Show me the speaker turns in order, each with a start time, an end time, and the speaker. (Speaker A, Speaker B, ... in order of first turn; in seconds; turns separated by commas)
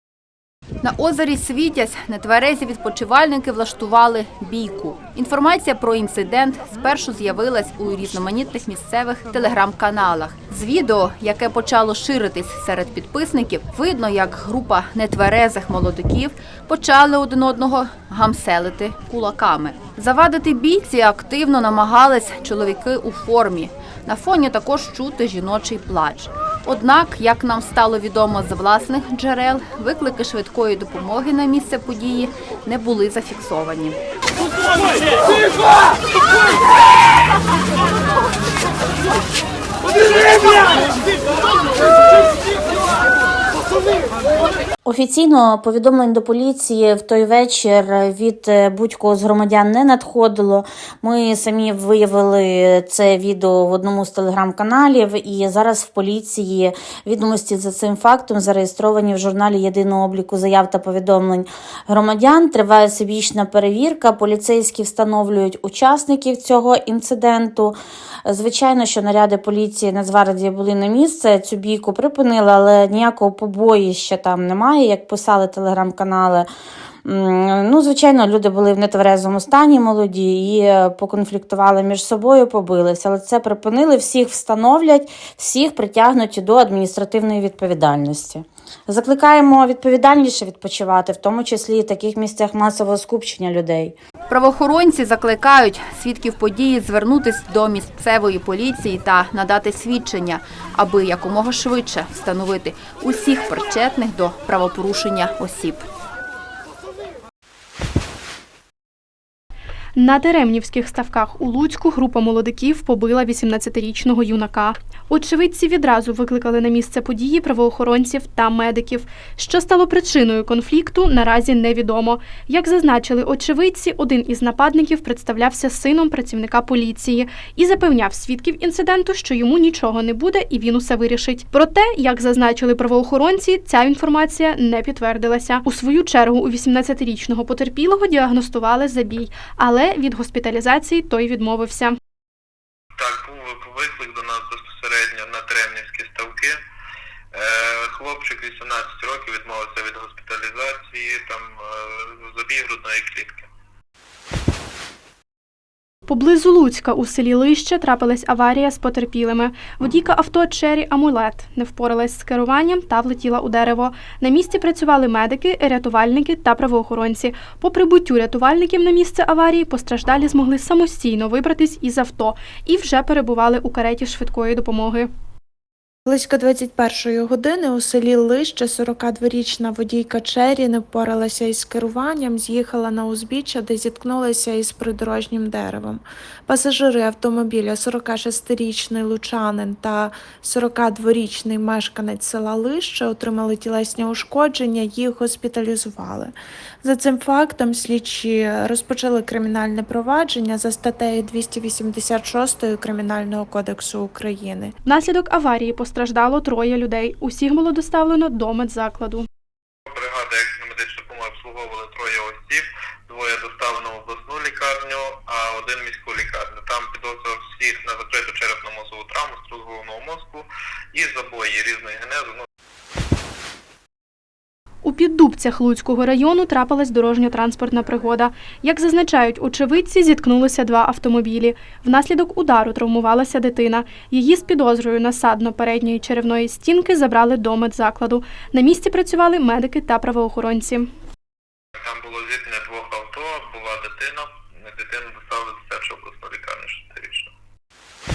Speaker A: 0.8-34.0, Speaker B: 44.9-76.5, Speaker B: 77.0-94.0, Speaker A: 94.3-105.9, Speaker C: 110.0-142.0, Speaker D: 143.0-146.6, Speaker D: 147.3-153.4, Speaker C: 156.1-175.1, Speaker E: 176.1-204.7, Speaker C: 204.8-209.3, Speaker D: 209.9-222.4, Speaker C: 224.8-240.9, Speaker D: 241.8-247.3